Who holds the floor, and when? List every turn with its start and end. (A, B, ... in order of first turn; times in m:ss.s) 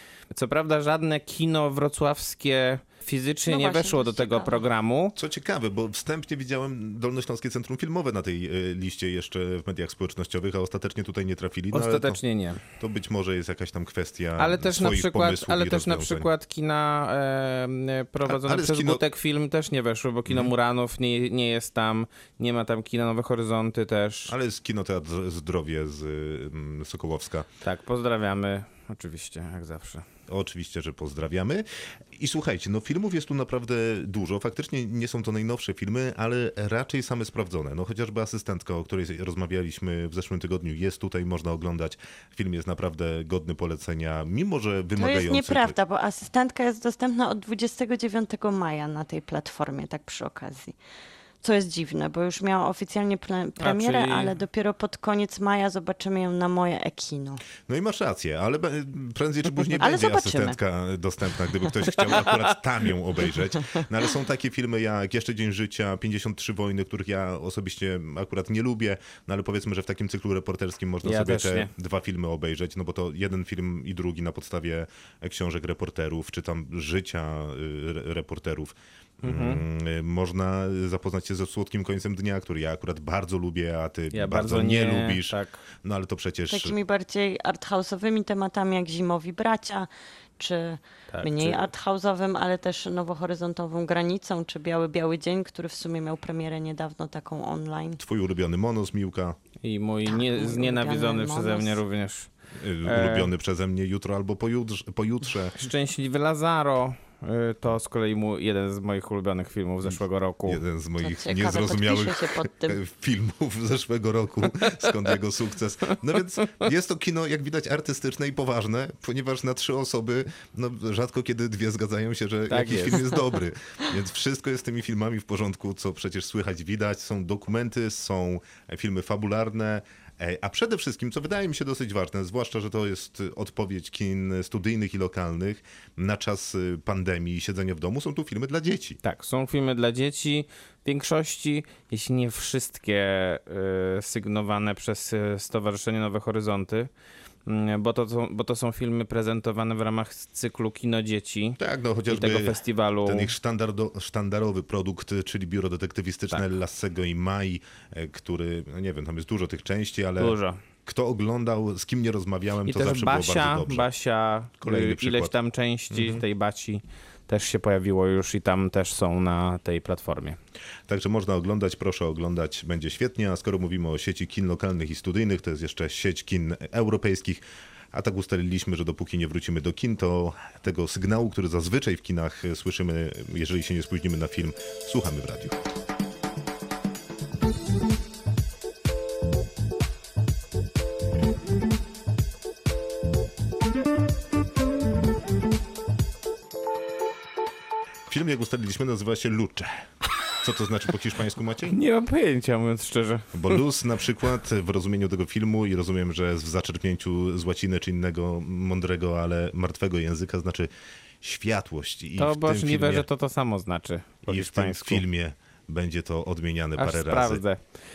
0:00.3-0:05.1 A
0:03.5-0:04.6 B
0:05.2-0:16.3 C
0:11.7-0:12.6 A
0:14.4-0:24.3 A
0:18.2-0:19.0 C
0:20.3-0:20.5 C
0:24.3-0:27.5 C
0:27.6-0:30.0 A
0:30.3-0:45.8 C
0:45.0-0:50.8 B
0:51.4-0:57.4 B
0:53.6-0:54.3 A
0:57.7-1:26.8 C
0:59.8-1:00.6 B
1:11.0-1:11.7 A
1:19.2-1:19.6 A
1:24.1-1:25.6 A
1:26.5-1:38.0 B
1:31.1-1:31.7 A
1:38.0-1:39.4 C
1:39.6-1:42.3 A
1:40.0-1:41.8 B
1:42.6-1:45.6 C
1:42.8-1:43.3 A
1:45.6-1:50.6 A
1:50.4-2:19.0 C
1:51.0-1:52.8 B
2:02.5-2:03.1 A
2:19.0-2:26.9 A
2:27.4-2:31.6 A
2:31.6-2:43.9 C
2:32.1-2:33.3 A
2:40.2-2:40.6 A
2:42.6-2:50.4 A
2:44.6-2:45.3 C
2:45.9-2:46.2 C
2:50.9-3:05.6 C
3:18.1-3:21.8 C
3:21.7-3:23.6 A
3:23.3-3:30.7 C
3:31.2-3:33.1 C
3:32.2-3:35.0 A
3:34.2-3:37.4 C
3:36.8-3:37.6 A